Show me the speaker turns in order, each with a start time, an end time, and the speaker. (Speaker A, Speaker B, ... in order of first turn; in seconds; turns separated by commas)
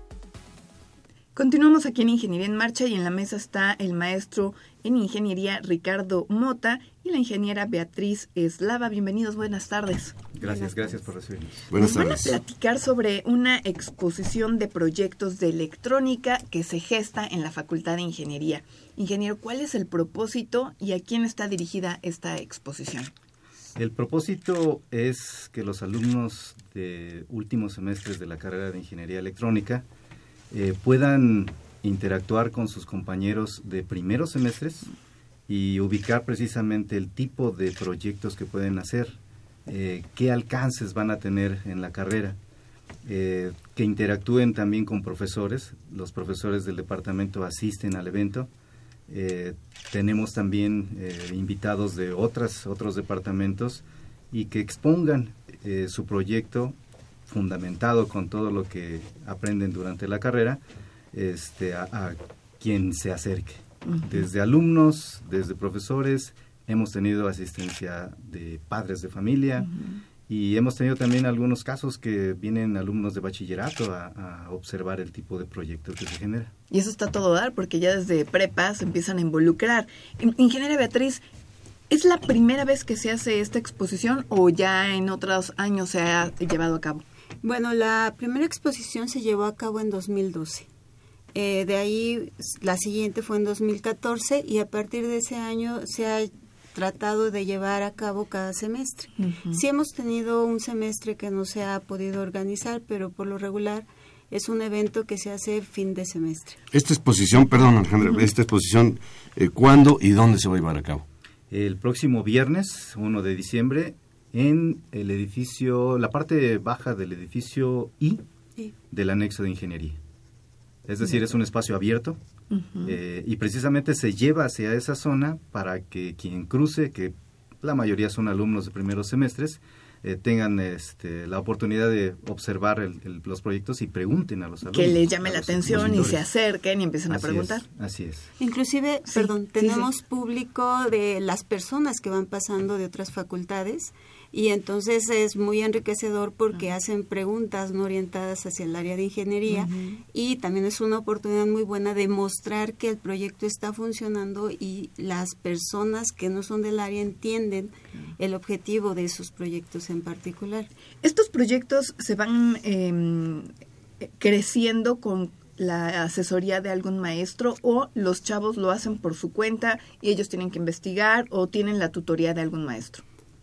Speaker A: 1.4-10.8, Speaker B: 10.3-11.7, Speaker C: 11.7-12.4, Speaker A: 11.7-23.1, Speaker B: 23.8-29.9, Speaker B: 30.5-34.9, Speaker B: 35.5-42.4, Speaker B: 43.0-48.5, Speaker B: 49.1-60.6, Speaker B: 61.1-69.7, Speaker A: 63.9-64.3, Speaker A: 69.6-70.0, Speaker B: 70.3-76.5, Speaker A: 76.7-81.2, Speaker A: 81.9-87.0, Speaker D: 87.4-90.7, Speaker D: 91.3-106.6, Speaker A: 99.2-99.6, Speaker C: 106.7-111.1, Speaker B: 111.5-118.2, Speaker B: 118.9-120.0, Speaker B: 120.9-122.2, Speaker A: 122.5-123.0, Speaker B: 122.8-136.3, Speaker A: 134.7-137.7, Speaker C: 135.7-136.1, Speaker B: 137.1-138.3, Speaker D: 138.4-160.7, Speaker A: 139.1-139.9, Speaker A: 161.0-163.5, Speaker A: 164.0-173.0